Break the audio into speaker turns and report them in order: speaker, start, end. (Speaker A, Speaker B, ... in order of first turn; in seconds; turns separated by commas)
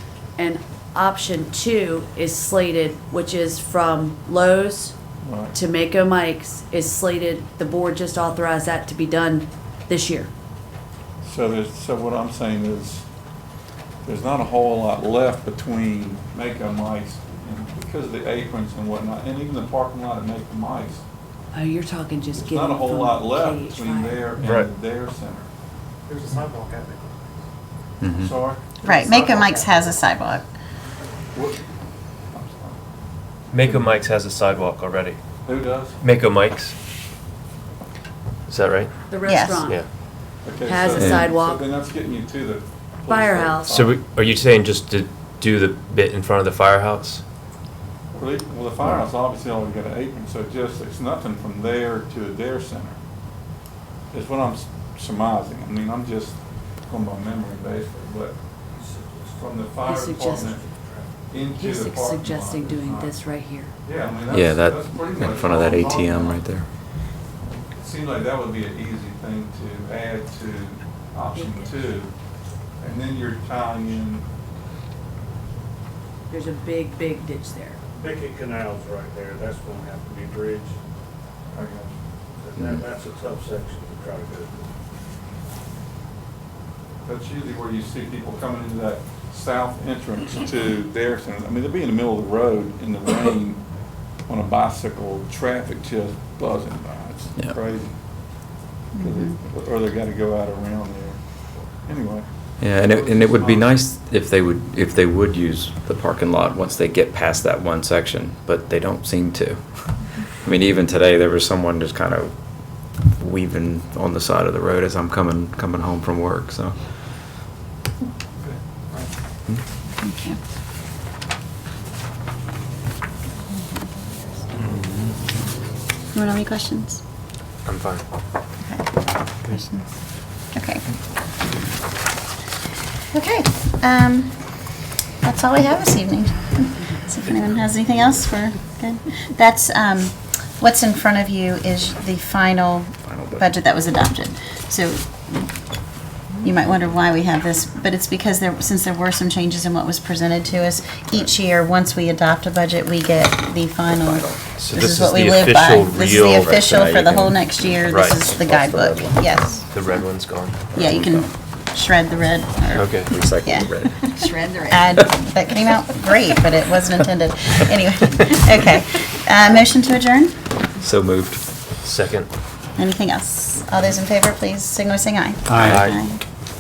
Speaker A: 0.4-4.9, Speaker B: 5.2-5.5, Speaker A: 5.5-10.3, Speaker B: 11.2-13.0, Speaker B: 14.0-21.0, Speaker A: 21.5-24.2, Speaker B: 22.3-25.5, Speaker C: 24.4-24.7, Speaker D: 26.1-27.4, Speaker E: 28.0-28.3, Speaker B: 28.2-28.9, Speaker F: 28.8-30.5, Speaker B: 31.3-31.6, Speaker B: 32.3-32.8, Speaker C: 33.5-35.2, Speaker B: 35.4-36.0, Speaker C: 36.0-36.8, Speaker C: 38.5-39.0, Speaker A: 39.1-39.8, Speaker F: 39.2-39.7, Speaker B: 40.4-44.0, Speaker A: 40.6-41.6, Speaker E: 41.0-41.3, Speaker A: 43.1-43.7, Speaker C: 43.7-47.2, Speaker B: 48.1-53.0, Speaker B: 54.1-58.4, Speaker D: 58.7-59.3, Speaker B: 59.4-60.7, Speaker A: 59.9-60.6, Speaker D: 60.6-61.1, Speaker B: 61.3-63.2, Speaker A: 61.5-63.7, Speaker B: 63.8-66.4, Speaker E: 64.3-66.7, Speaker B: 67.5-72.1, Speaker A: 71.3-71.8, Speaker B: 72.8-74.2, Speaker A: 76.3-77.8, Speaker D: 77.9-80.7, Speaker B: 81.5-82.0, Speaker D: 82.4-84.7, Speaker B: 87.0-93.6, Speaker B: 94.2-98.0, Speaker F: 99.0-99.4, Speaker B: 99.0-102.2, Speaker E: 102.6-112.4, Speaker B: 102.8-103.7, Speaker E: 113.0-116.8, Speaker F: 120.0-120.4, Speaker F: 123.5-124.4, Speaker E: 124.6-125.2, Speaker F: 126.1-127.0, Speaker C: 127.6-128.0, Speaker F: 128.6-130.9, Speaker F: 133.1-145.6, Speaker E: 143.1-143.5, Speaker F: 146.4-160.0, Speaker E: 153.9-154.4, Speaker C: 154.6-156.7, Speaker E: 156.4-157.6, Speaker C: 157.9-158.2, Speaker E: 158.1-159.5, Speaker C: 159.7-160.7, Speaker F: 160.7-170.4, Speaker E: 160.7-161.3, Speaker C: 162.7-163.1, Speaker E: 163.1-164.2, Speaker E: 170.8-171.4, Speaker C: 171.8-172.3, Speaker F: 172.8-176.2, Speaker E: 175.5-175.8, Speaker C: 175.6-176.0